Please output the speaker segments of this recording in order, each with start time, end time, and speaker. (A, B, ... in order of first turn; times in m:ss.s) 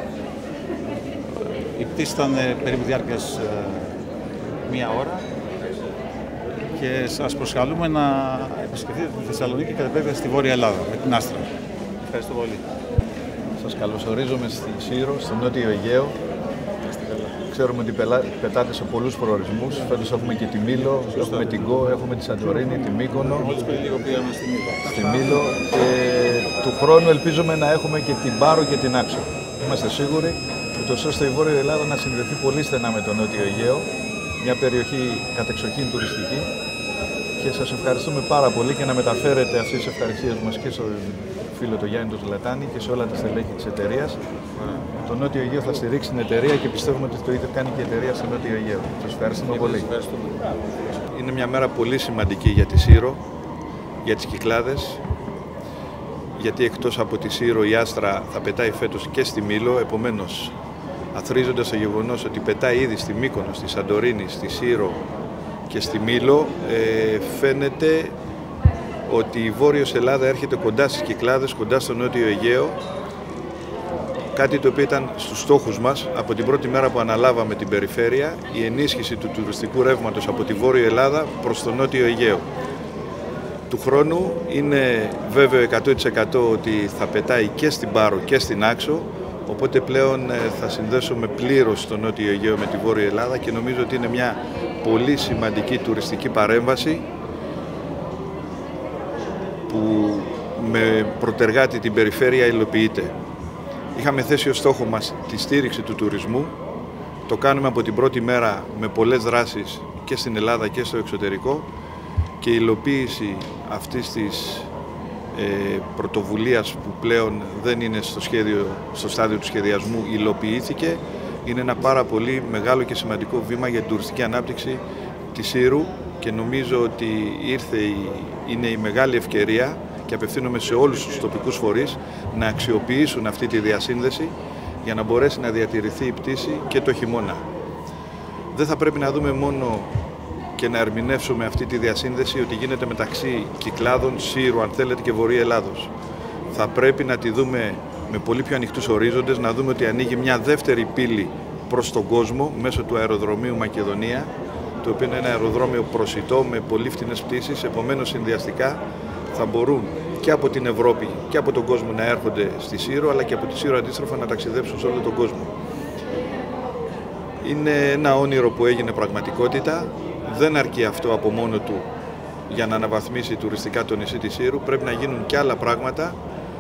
0:01.4-0:04.0 A
0:04.6-0:05.2 A
0:06.7-0:11.5 A
0:12.0-0:12.6 A
0:13.6-0:16.2 B
0:17.0-0:17.3 A
0:17.5-0:23.6 B
0:23.5-0:25.0 A
0:24.8-0:36.5 B
0:37.4-0:44.2 B
0:44.9-0:49.9 B
0:49.7-0:50.3 A
0:51.1-0:53.2 B
0:54.0-0:55.0 B
0:56.4-1:00.5 B
1:01.1-1:05.0 B
1:05.7-1:08.2 B
1:09.0-1:12.8 B
1:14.3-1:22.5 B
1:23.7-1:37.1 B
1:39.7-1:43.1 B
1:43.9-1:46.5 B
1:47.3-1:51.7 B
1:52.4-1:54.7 B
1:55.3-2:17.4 B
2:18.5-2:19.9 B
2:20.6-2:25.9 B
2:26.5-2:45.5 B
2:47.4-2:51.9 B
2:52.5-2:56.2 B